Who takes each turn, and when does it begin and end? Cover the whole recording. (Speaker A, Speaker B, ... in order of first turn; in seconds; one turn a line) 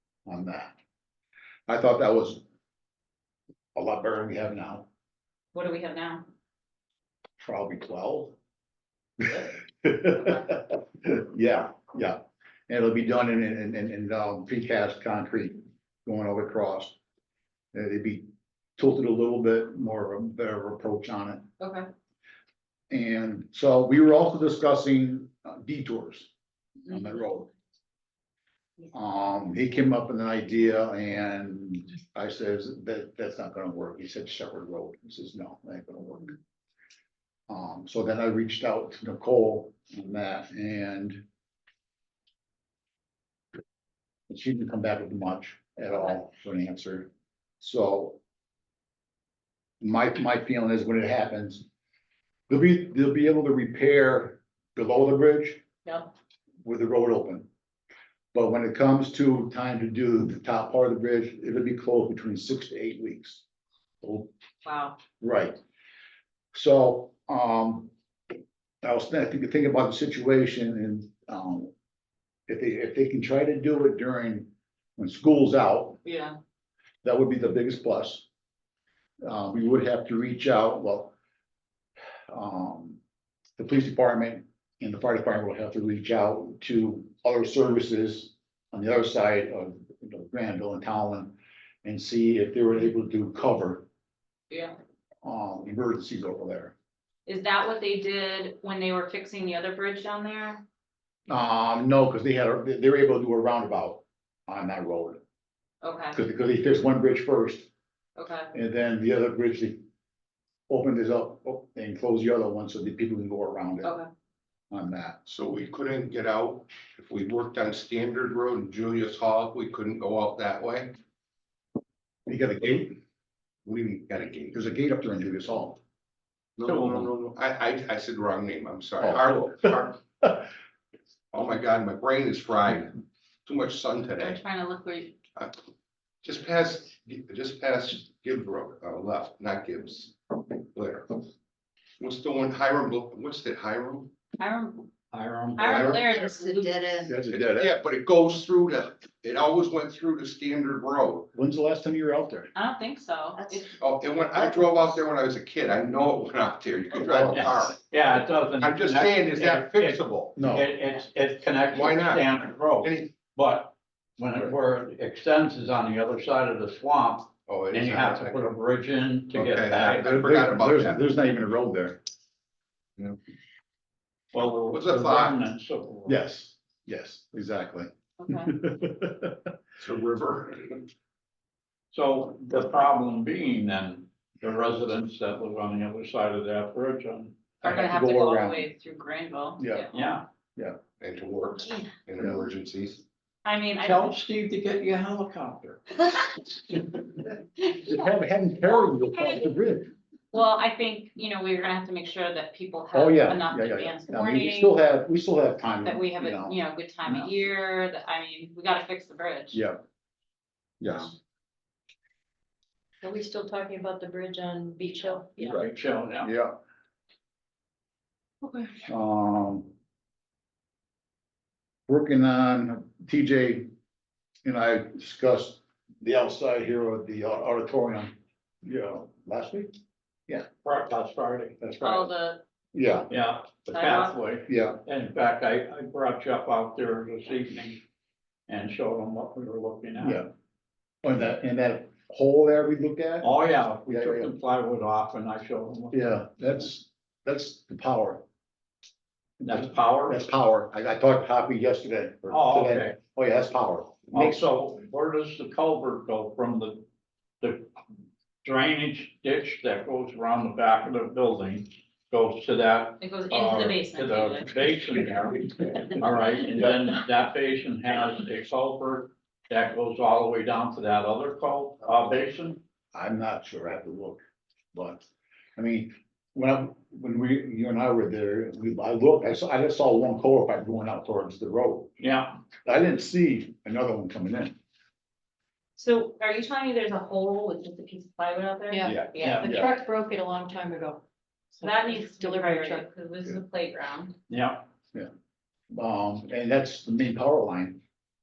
Speaker A: 0.2-0.7
Speaker A: 1.7-2.4
Speaker A: 3.7-4.9
Speaker B: 5.5-6.2
Speaker A: 7.4-8.3
Speaker A: 9.2-16.9
Speaker A: 17.7-21.5
Speaker B: 21.6-21.9
Speaker A: 22.9-26.3
Speaker A: 26.9-27.5
Speaker A: 28.9-36.3
Speaker A: 37.5-41.2
Speaker A: 44.3-48.2
Speaker A: 49.8-51.6
Speaker A: 52.5-55.6
Speaker B: 55.8-56.1
Speaker A: 56.6-57.5
Speaker A: 58.3-63.4
Speaker A: 64.0-64.3
Speaker B: 64.6-65.0
Speaker A: 65.2-65.6
Speaker A: 66.5-67.9
Speaker A: 68.8-71.7
Speaker A: 72.5-76.0
Speaker B: 76.0-76.3
Speaker A: 77.0-78.2
Speaker A: 79.2-81.1
Speaker A: 82.3-83.0
Speaker A: 83.6-93.9
Speaker A: 95.2-96.7
Speaker B: 97.3-100.6
Speaker A: 101.3-105.2
Speaker B: 105.8-106.2
Speaker A: 106.1-107.7
Speaker B: 108.2-108.5
Speaker A: 108.5-109.8
Speaker A: 110.7-113.9
Speaker B: 113.8-114.1
Speaker A: 114.7-115.2
Speaker C: 115.2-121.0
Speaker A: 122.3-123.0
Speaker C: 123.7-124.6
Speaker A: 124.5-125.8
Speaker C: 126.6-130.0
Speaker A: 129.0-130.4
Speaker C: 131.3-134.4
Speaker B: 134.2-135.1
Speaker C: 136.2-141.2
Speaker C: 142.0-144.1
Speaker B: 144.4-144.9
Speaker D: 145.1-146.0
Speaker B: 145.6-147.1
Speaker C: 145.7-146.1
Speaker A: 147.1-147.7
Speaker C: 147.2-151.3
Speaker A: 151.3-152.5
Speaker B: 152.5-153.7
Speaker C: 153.8-157.8
Speaker A: 157.0-157.7
Speaker D: 157.3-160.0
Speaker C: 158.6-160.4
Speaker A: 160.3-160.7
Speaker D: 160.5-170.1
Speaker C: 161.7-163.1
Speaker C: 167.5-168.5
Speaker C: 169.3-171.0
Speaker A: 170.0-172.0
Speaker D: 174.3-176.1
Speaker C: 174.7-175.4
Speaker A: 176.1-179.4
Speaker B: 178.2-178.5
Speaker C: 179.8-180.9
Speaker D: 181.9-187.4
Speaker A: 187.6-188.7
Speaker B: 187.6-190.0
Speaker A: 189.6-189.9
Speaker D: 189.9-190.2
Speaker C: 191.0-193.0
Speaker B: 193.4-194.1
Speaker D: 193.8-195.8
Speaker B: 197.6-198.1
Speaker A: 197.8-199.9
Speaker B: 198.6-199.6
Speaker B: 200.3-204.8
Speaker A: 202.9-206.6
Speaker B: 205.8-209.6
Speaker A: 209.5-209.8
Speaker A: 210.8-211.1
Speaker E: 213.0-215.6
Speaker D: 215.6-216.3
Speaker A: 216.2-216.5
Speaker E: 218.4-218.8
Speaker A: 218.8-219.7
Speaker A: 221.9-223.7
Speaker A: 224.4-229.7
Speaker D: 230.6-231.9
Speaker B: 231.8-232.4
Speaker A: 232.7-233.1
Speaker D: 233.1-237.8
Speaker B: 233.7-234.2
Speaker A: 234.5-234.8
Speaker D: 238.5-240.1
Speaker A: 240.0-240.3
Speaker A: 241.0-243.3
Speaker D: 243.2-245.9
Speaker A: 243.8-244.3
Speaker A: 245.9-248.2
Speaker A: 249.4-254.5
Speaker D: 249.4-250.1
Speaker D: 252.3-252.9
Speaker D: 254.1-256.8
Speaker D: 258.4-272.6
Speaker B: 263.0-264.5
Speaker A: 272.9-274.2
Speaker A: 274.7-281.9
Speaker D: 282.0-282.3
Speaker A: 282.6-284.5
Speaker B: 285.8-289.5
Speaker E: 288.7-291.0
Speaker A: 288.9-289.7
Speaker E: 291.6-292.8
Speaker B: 291.6-294.1
Speaker D: 294.3-294.6
Speaker A: 295.7-297.8